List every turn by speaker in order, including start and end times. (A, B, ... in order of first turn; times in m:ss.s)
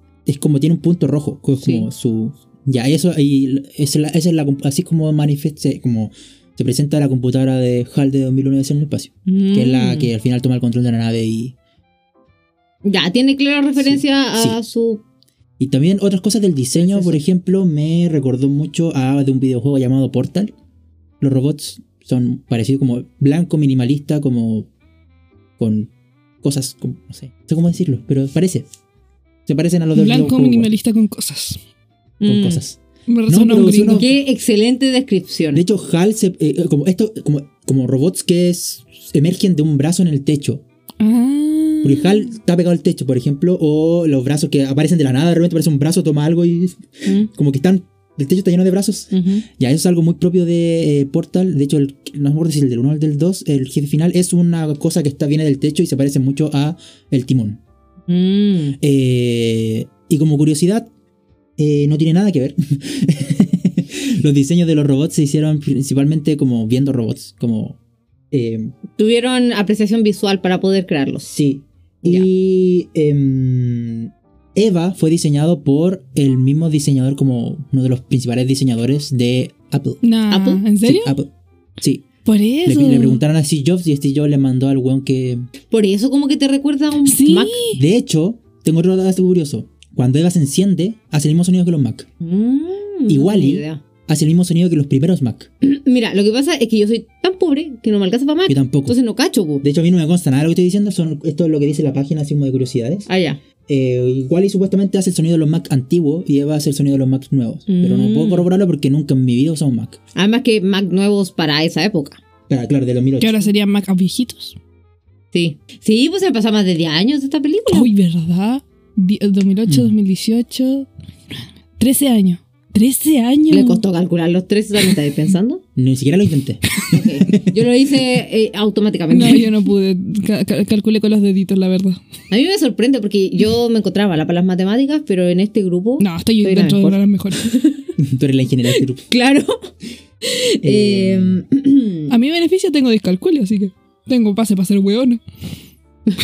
0:00.3-0:11.6 A
0:01.6-0:01.9 B
0:09.3-0:10.1 B
0:12.8-0:15.0 B
0:13.8-0:14.6 A
0:15.6-0:20.5 A
0:16.8-0:17.2 B
0:21.2-0:24.7 A
0:25.6-0:25.9 A
0:26.4-0:28.7 A
0:29.5-0:30.7 A
0:30.0-0:31.6 C
0:32.2-0:32.6 B
0:32.2-0:34.1 A
0:33.1-0:34.0 C
0:33.9-0:35.6 B
0:35.5-0:40.6 A
0:41.0-0:42.3 C
0:41.8-0:57.6 A
0:49.1-0:49.5 B
0:58.1-0:58.8 B
0:58.8-1:00.9 A
1:01.6-1:07.8 A
1:08.3-1:08.8 A
1:09.0-1:11.4 B
1:11.3-1:20.0 A
1:20.0-1:21.2 C
1:20.3-1:20.6 B
1:20.8-1:22.1 A
1:22.2-1:23.2 C
1:22.6-1:25.4 A
1:25.7-1:27.6 B
1:27.0-1:27.8 C
1:27.7-1:32.1 A
1:32.2-1:33.8 B
1:33.1-1:35.5 A
1:35.6-1:39.6 B
1:38.5-1:39.0 A
1:39.6-1:43.1 A
1:43.1-1:43.4 B
1:43.7-1:50.0 A
1:47.7-1:48.5 B
1:50.2-1:52.2 B
1:52.5-1:53.5 A
1:53.2-1:54.6 C
1:55.3-1:57.9 B
1:57.7-2:00.9 C
1:59.7-1:59.9 A
2:01.8-2:03.8 C
2:03.5-2:05.6 B
2:05.8-2:07.5 A
2:06.9-2:09.6 B
2:09.1-2:12.0 C
2:12.3-2:17.9 B
2:16.0-2:17.5 C
2:18.0-2:19.0 A
2:19.1-2:19.6 B
2:20.2-2:22.1 B
2:20.6-2:21.4 A
2:22.1-2:25.2 C